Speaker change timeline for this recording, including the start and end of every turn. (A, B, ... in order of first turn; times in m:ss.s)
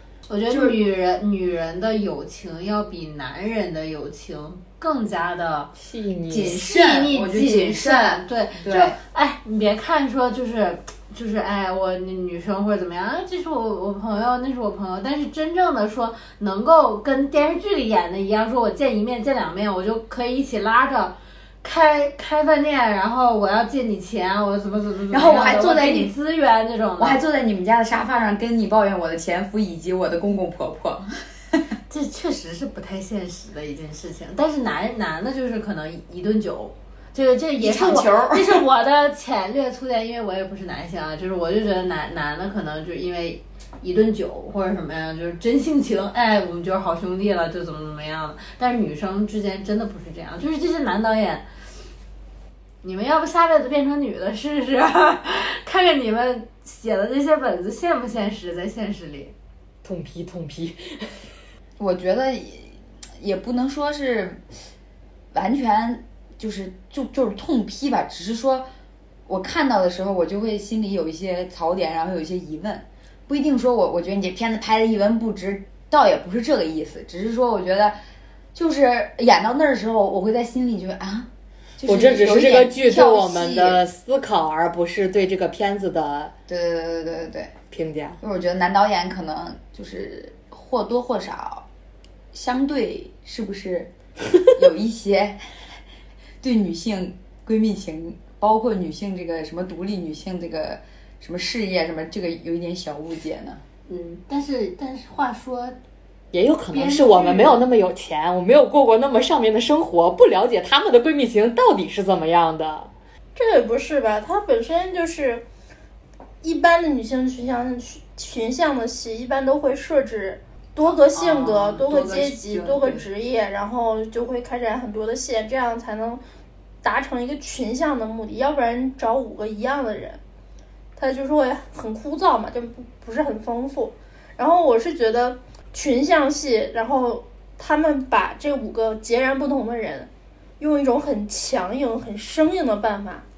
0:00.3-0:05.7 A
0:00.5-0:00.8 B
0:05.8-0:06.5 C
0:06.3-0:09.0 B
0:06.4-0:27.2 A
0:25.1-0:26.1 B
0:27.0-0:31.6 B
0:31.9-0:51.4 A
0:37.6-0:38.6 B
0:52.8-0:59.3 A
0:59.8-1:01.3 C
1:01.8-1:04.4 B
1:05.3-1:08.7 B
1:09.3-1:18.0 B
1:18.5-1:23.8 B
1:21.8-1:26.3 C
1:26.5-1:27.5 B
1:27.7-1:28.2 C
1:28.2-1:31.6 B
1:32.3-1:33.9 B
1:34.5-1:35.4 B
1:36.4-1:43.6 B
1:43.9-1:45.8 A
1:46.3-1:52.9 C
1:46.7-1:47.7 A
1:53.4-1:55.4 D
1:56.4-2:06.2 D
2:00.8-2:03.0 B
2:06.8-2:10.2 D
2:11.0-2:23.2 D